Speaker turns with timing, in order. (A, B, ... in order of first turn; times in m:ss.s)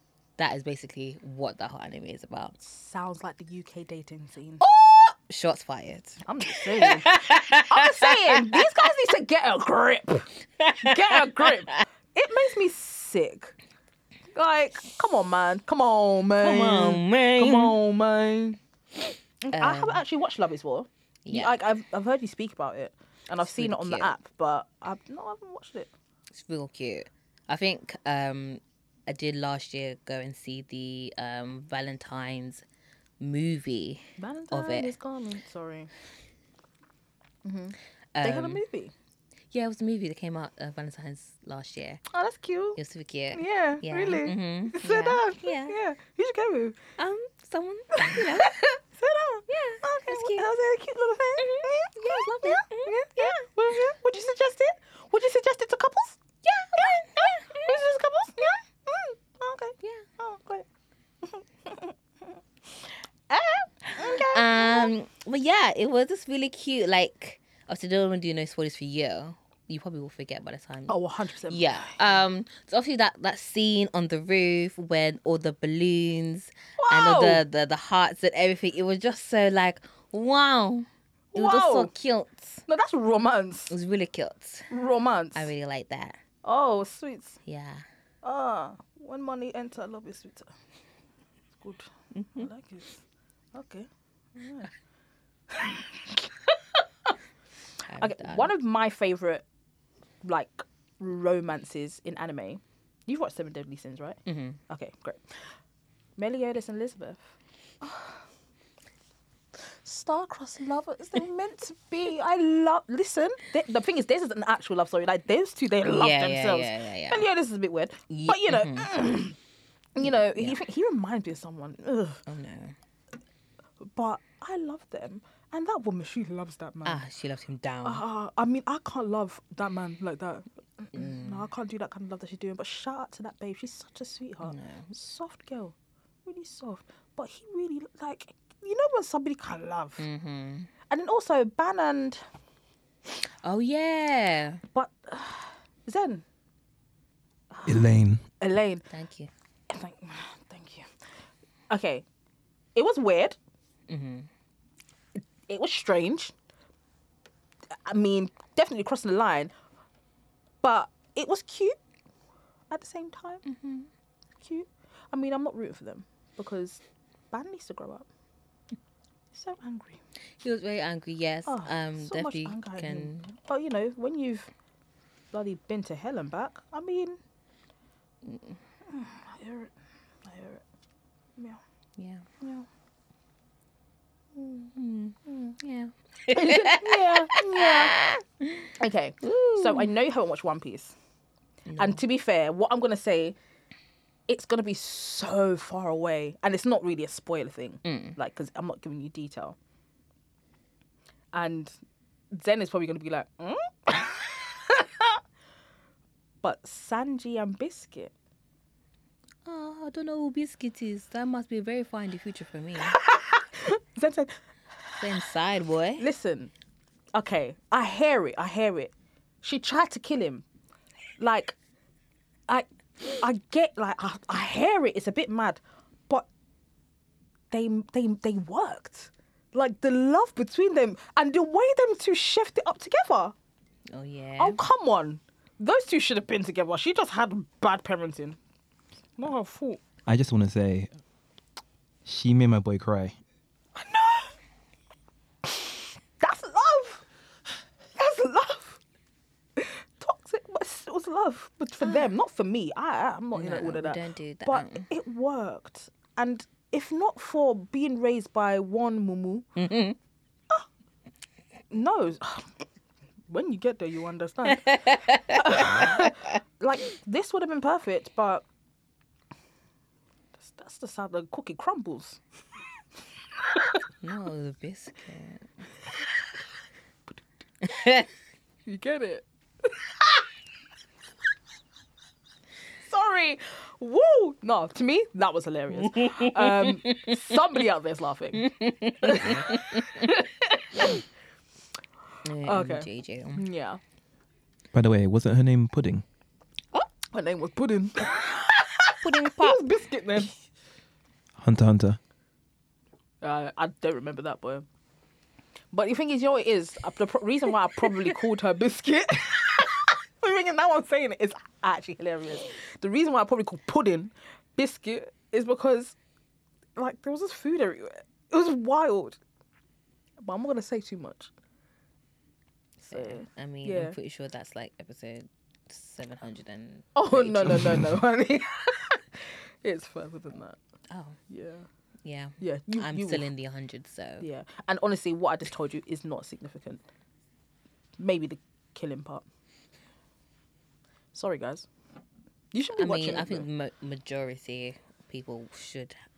0:00.4-0:02.6 A
0:02.6-0:04.6 B
0:04.6-0:08.6 A
0:06.2-0:13.5 B
0:10.6-0:11.8 A
0:14.3-0:18.6 B
0:16.4-0:17.8 A
0:19.4-0:25.9 B
0:19.5-0:20.0 A
0:21.2-0:21.6 A
0:23.4-0:24.1 A
0:26.3-0:32.6 A
0:33.2-0:35.0 A
0:34.2-0:35.9 B
0:37.4-0:38.9 B
0:38.2-0:38.6 A
0:39.5-0:42.0 A
0:42.1-0:42.8 B
0:42.8-0:45.8 A
0:43.3-0:46.8 B
0:47.0-0:48.6 A
0:48.0-0:56.2 B
0:49.5-0:50.5 A
0:51.4-0:53.5 A
0:56.4-0:57.8 A
0:56.8-1:00.7 B
1:01.2-1:02.0 B
1:03.3-1:04.9 B
1:03.9-1:11.0 A
1:10.9-1:12.2 B
1:11.5-1:22.6 A
1:16.8-1:17.4 B
1:21.3-1:21.9 B
1:22.7-1:23.8 B
1:23.7-1:24.7 A
1:24.7-1:25.5 B
1:25.3-1:26.2 A
1:26.4-1:27.4 B
1:27.4-1:27.8 A
1:28.2-1:30.5 B
1:31.6-1:33.0 B
1:32.2-1:32.5 A
1:33.5-1:34.7 B
1:35.5-1:37.2 B
1:37.8-1:38.5 A
1:38.0-1:39.4 B
1:40.2-1:45.4 B
1:44.3-1:44.6 A
1:46.2-1:47.2 B
1:47.8-1:48.3 B
1:49.6-1:59.4 B
1:55.9-1:57.2 A
1:58.1-1:58.9 A
2:00.0-2:02.2 B
2:00.3-2:00.6 A
2:02.3-2:02.8 A
2:03.8-2:07.0 B
2:06.8-2:08.0 A
2:07.8-2:20.1 B
2:10.9-2:11.4 A
2:14.4-2:14.9 A
2:20.0-2:20.7 A
2:20.9-2:22.2 B
2:23.4-2:24.6 A
2:24.7-2:26.2 B
2:27.5-2:27.9 B
2:27.7-2:28.2 C
2:28.4-2:28.9 B
2:28.9-2:29.3 A
2:29.7-2:30.9 B
2:31.7-2:32.0 B
2:32.8-2:33.4 B
2:33.9-2:34.3 A
2:35.5-2:36.3 B
2:37.8-2:39.5 B
2:40.6-2:41.8 B
2:42.7-2:43.4 B
2:43.4-2:43.9 A
2:44.4-2:48.1 B
2:49.3-2:50.0 B
2:50.4-2:53.3 A
2:51.5-2:54.5 B
2:55.3-2:57.2 B
2:58.2-2:58.6 A
2:58.9-2:59.7 B
3:00.2-3:00.6 B
3:01.4-3:01.6 B
3:02.0-3:02.3 A
3:02.4-3:02.7 B
3:04.4-3:08.7 A
3:06.3-3:08.0 B
3:08.8-3:11.0 B
3:09.2-3:09.9 A
3:11.7-3:12.0 A
3:11.8-3:13.4 B
3:14.3-3:19.6 B
3:17.8-3:18.2 A
3:21.3-3:21.8 B
3:22.3-3:25.2 B
3:26.4-3:28.1 B
3:29.4-3:33.0 A
3:32.8-3:34.4 B
3:35.0-3:36.0 A
3:36.0-3:36.5 B
3:37.1-3:40.4 B
3:41.2-3:41.6 B
3:42.5-3:46.3 B
3:47.5-3:53.4 B
3:53.9-3:54.6 A
3:54.4-3:58.4 B
3:59.2-3:59.8 B
4:00.1-4:00.9 C
4:02.1-4:03.2 C
4:03.7-4:04.3 B
4:05.4-4:07.0 B
4:08.0-4:08.8 B
4:09.6-4:19.5 B
4:13.4-4:14.9 A
4:19.6-4:20.0 A
4:21.7-4:22.5 B
4:23.3-4:28.5 B
4:24.5-4:26.1 A
4:30.4-4:32.2 B
4:33.5-4:33.8 B
4:34.0-4:35.5 A
4:37.6-4:38.1 A
4:38.7-4:40.2 B
4:42.8-4:51.0 B
4:45.8-4:47.2 A
4:48.4-4:50.1 A
4:52.2-4:53.4 A
4:52.4-4:53.8 B
4:54.7-4:56.0 C
4:57.1-5:00.3 B
4:59.0-4:59.6 A
5:01.4-5:02.0 C
5:03.2-5:04.7 B
5:05.7-5:16.0 B
5:16.8-5:19.2 B
5:20.2-5:21.3 B
5:22.8-5:27.8 A
5:22.9-5:24.0 B
5:27.0-5:30.6 B
5:30.9-5:31.2 A
5:31.3-5:31.7 B
5:32.0-5:34.3 A
5:32.4-5:33.3 B
5:34.2-5:36.8 B
5:38.0-5:39.2 B
5:41.1-5:41.7 B
5:42.5-5:43.5 B
5:42.8-5:46.0 A